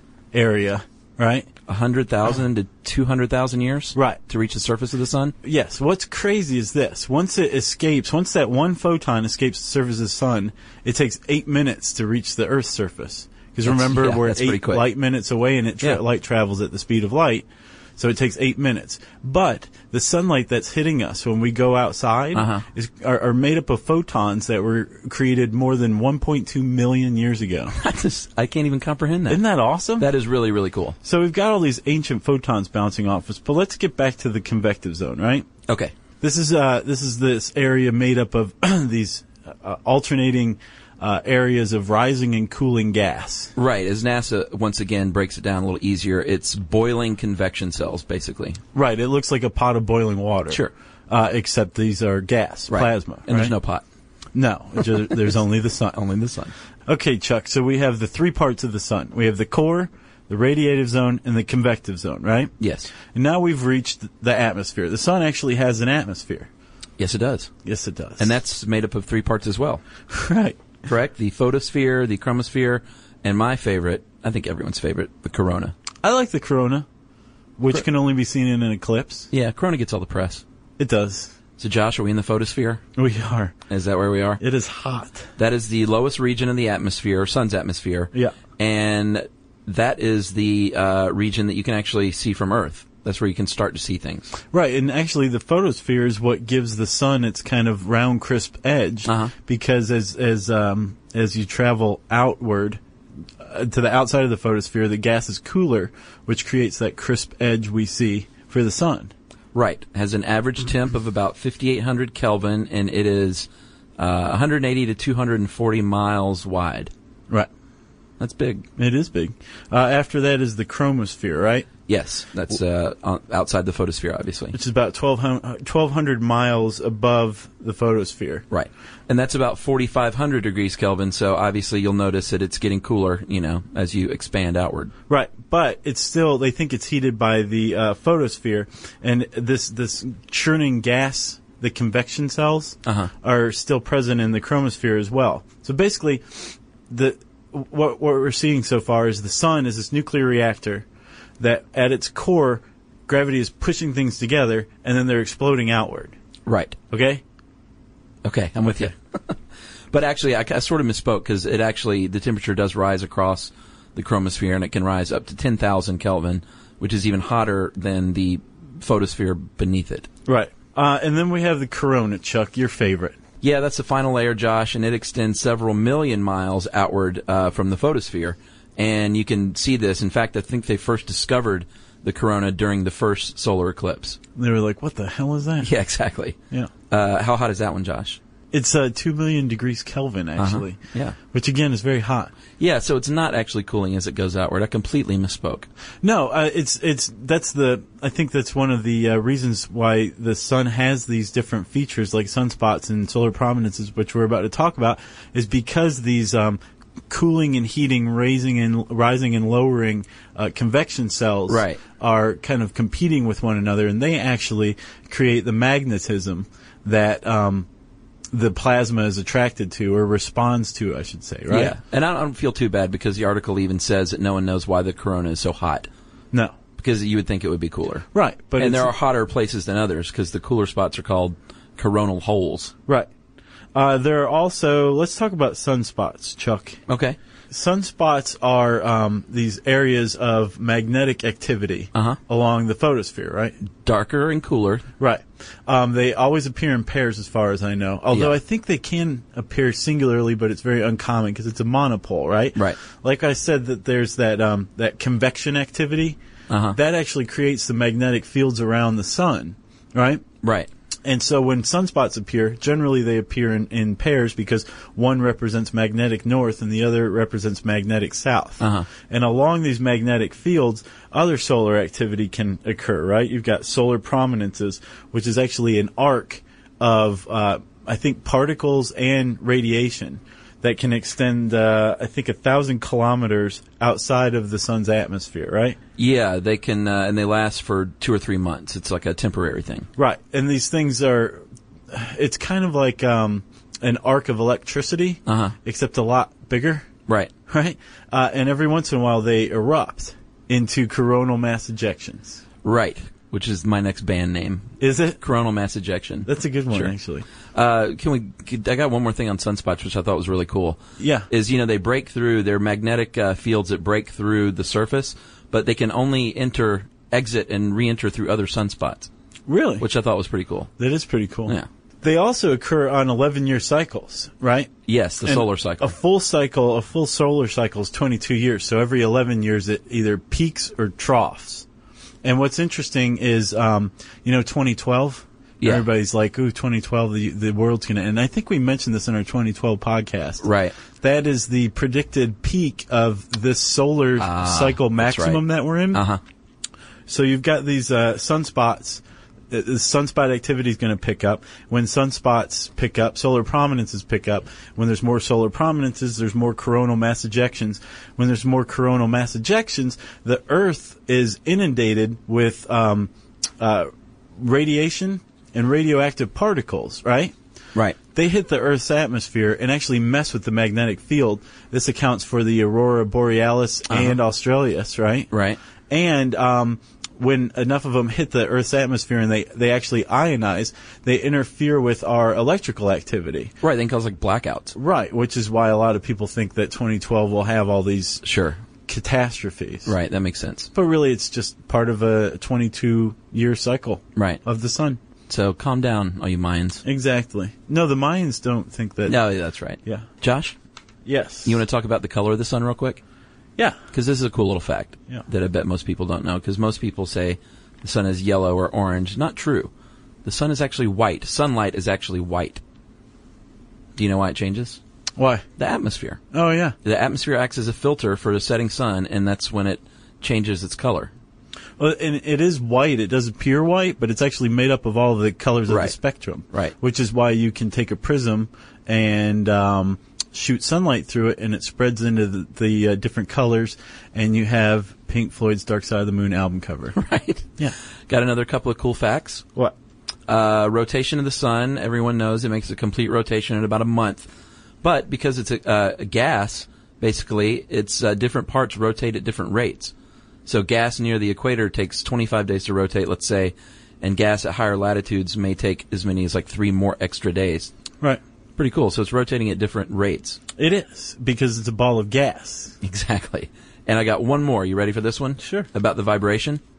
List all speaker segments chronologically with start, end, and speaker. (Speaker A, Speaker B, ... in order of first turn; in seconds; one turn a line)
Speaker A: 0.3-1.5
Speaker B: 1.7-5.3
Speaker A: 3.9-4.2
Speaker A: 5.4-27.7
Speaker B: 13.6-14.9
Speaker B: 22.3-22.6
Speaker B: 27.7-29.4
Speaker A: 29.3-30.1
Speaker B: 30.0-31.0
Speaker A: 31.0-35.5
Speaker B: 35.7-35.9
Speaker A: 36.2-43.5
Speaker B: 43.5-48.6
Speaker A: 48.7-53.5
Speaker B: 52.7-53.8
Speaker A: 54.3-56.0
Speaker B: 55.9-56.5
Speaker A: 56.9-66.5
Speaker B: 62.6-62.9
Speaker B: 67.0-67.5
Speaker A: 67.6-68.3
Speaker B: 68.2-69.8
Speaker A: 70.1-70.6
Speaker B: 70.8-75.7
Speaker A: 76.0-76.8
Speaker A: 77.6-79.3
Speaker B: 79.3-80.4
Speaker A: 80.8-81.3
Speaker B: 81.6-82.8
Speaker A: 83.0-83.5
Speaker B: 83.7-84.4
Speaker A: 84.4-85.3
Speaker B: 85.4-94.3
Speaker A: 94.5-102.8
Speaker B: 99.0-99.3
Speaker A: 103.4-109.1
Speaker B: 109.5-116.9
Speaker B: 118.2-118.7
Speaker A: 118.8-121.7
Speaker B: 121.9-124.5
Speaker A: 124.5-128.4
Speaker B: 128.5-134.9
Speaker A: 135.1-150.8
Speaker B: 142.8-143.1
Speaker A: 151.4-156.2
Speaker B: 156.4-156.8
Speaker A: 156.9-157.2
Speaker B: 158.2-159.3
Speaker B: 159.9-170.1
Speaker A: 170.2-173.2
Speaker B: 173.4-184.2
Speaker A: 184.3-185.7
Speaker B: 185.6-186.3
Speaker B: 186.9-188.2
Speaker A: 188.5-190.8
Speaker B: 190.4-191.2
Speaker A: 191.3-192.3
Speaker B: 192.6-195.7
Speaker A: 196.0-217.7
Speaker B: 211.5-211.8
Speaker A: 218.3-221.8
Speaker B: 221.5-225.9
Speaker B: 226.8-228.1
Speaker A: 228.1-228.9
Speaker B: 228.6-232.7
Speaker A: 233.7-236.8
Speaker B: 236.9-237.2
Speaker A: 237.5-243.6
Speaker B: 243.8-244.9
Speaker A: 245.0-256.2
Speaker B: 248.1-248.4
Speaker B: 256.5-256.8
Speaker A: 256.7-260.2
Speaker B: 260.4-260.7
Speaker A: 261.0-285.8
Speaker B: 268.6-268.9
Speaker B: 286.0-289.9
Speaker A: 290.0-296.9
Speaker B: 295.2-295.5
Speaker A: 297.5-302.4
Speaker B: 302.6-306.9
Speaker A: 304.8-305.2
Speaker A: 306.2-307.2
Speaker B: 307.5-310.8
Speaker A: 311.0-311.3
Speaker B: 311.3-319.1
Speaker A: 319.5-319.9
Speaker B: 319.8-320.7
Speaker A: 320.8-324.7
Speaker B: 324.9-325.9
Speaker A: 325.2-331.6
Speaker A: 332.2-340.4
Speaker B: 335.6-335.9
Speaker B: 340.4-340.8
Speaker A: 341.0-346.0
Speaker B: 344.2-346.2
Speaker A: 347.1-367.3
Speaker A: 368.1-375.3
Speaker B: 373.9-374.2
Speaker B: 375.3-375.6
Speaker A: 375.9-383.5
Speaker B: 383.6-384.7
Speaker A: 384.8-388.2
Speaker B: 388.2-388.6
Speaker A: 388.9-389.9
Speaker B: 389.9-390.7
Speaker A: 390.7-395.0
Speaker B: 394.1-394.4
Speaker B: 395.3-396.8
Speaker A: 396.8-399.2
Speaker B: 399.1-400.5
Speaker A: 401.0-401.6
Speaker B: 401.4-403.0
Speaker B: 403.9-409.7
Speaker B: 410.2-412.6
Speaker B: 413.9-414.8
Speaker A: 415.2-415.4
Speaker B: 415.6-416.2
Speaker A: 416.3-416.7
Speaker B: 416.8-421.1
Speaker A: 421.8-436.9
Speaker B: 425.7-425.9
Speaker B: 436.9-437.5
Speaker B: 438.1-439.4
Speaker B: 440.3-444.3
Speaker B: 444.8-449.9
Speaker B: 450.4-457.7
Speaker B: 458.6-460.4
Speaker A: 460.6-462.7
Speaker B: 462.8-466.6
Speaker A: 465.4-465.7